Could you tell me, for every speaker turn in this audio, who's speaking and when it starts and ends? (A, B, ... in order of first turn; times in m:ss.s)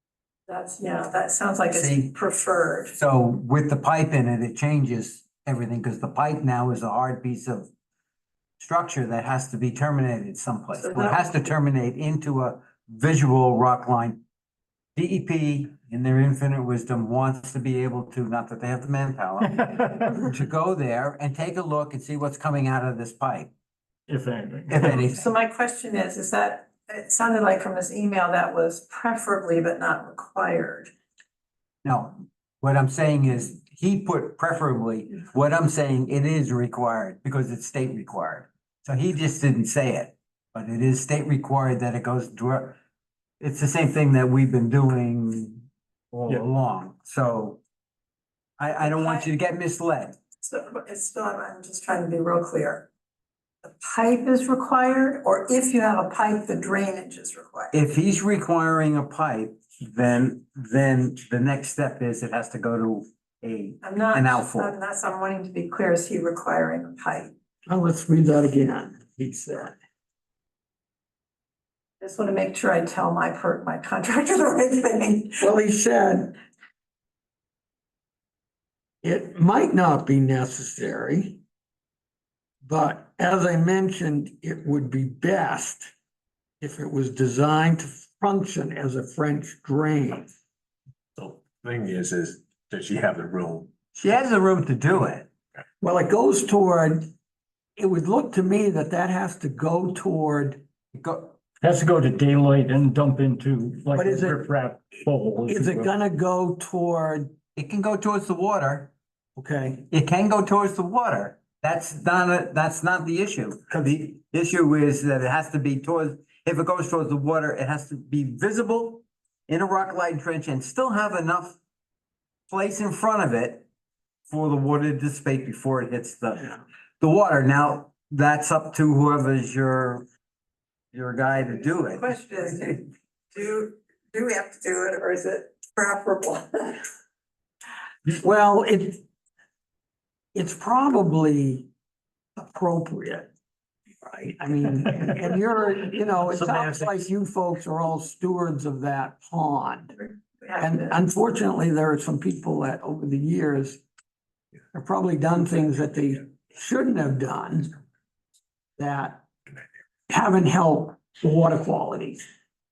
0:00.5-0:02.9 A
0:01.7-0:02.1 B
0:03.0-0:07.7 B
0:08.6-0:14.2 B
0:10.7-0:11.3 A
0:15.0-0:23.5 B
0:19.6-0:20.1 C
0:24.1-0:25.0 C
0:24.7-0:25.3 B
0:24.9-0:30.9 A
0:31.8-0:42.8 B
0:43.4-0:47.6 B
0:48.6-0:50.2 B
0:48.7-0:49.3 A
0:50.4-0:52.9 A
0:53.6-0:57.7 A
0:57.7-1:04.7 B
1:03.8-1:07.3 A
1:07.7-1:09.8 D
1:12.0-1:15.4 A
1:15.4-1:16.3 D
1:19.0-1:21.4 D
1:22.6-1:25.9 D
1:26.6-1:30.3 D
1:31.2-1:33.7 E
1:33.9-1:35.3 B
1:35.8-1:37.1 D
1:37.8-1:40.6 D
1:40.9-1:41.4 B
1:41.6-1:45.9 C
1:43.9-1:44.4 D
1:45.4-1:47.3 D
1:47.5-1:48.9 B
1:49.4-1:49.8 D
1:49.9-2:01.6 B
2:02.5-2:03.7 B
2:04.3-2:10.0 B
2:10.9-2:12.8 B
2:11.3-2:16.9 A
2:18.0-2:19.0 D
2:20.3-2:21.7 D
2:22.4-2:23.3 D
2:24.0-2:29.9 D
2:26.2-2:27.0 C
2:30.0-2:31.0 A
2:30.6-2:33.8 D
2:34.7-2:37.7 D
2:38.8-2:39.2 D
2:40.1-2:42.2 D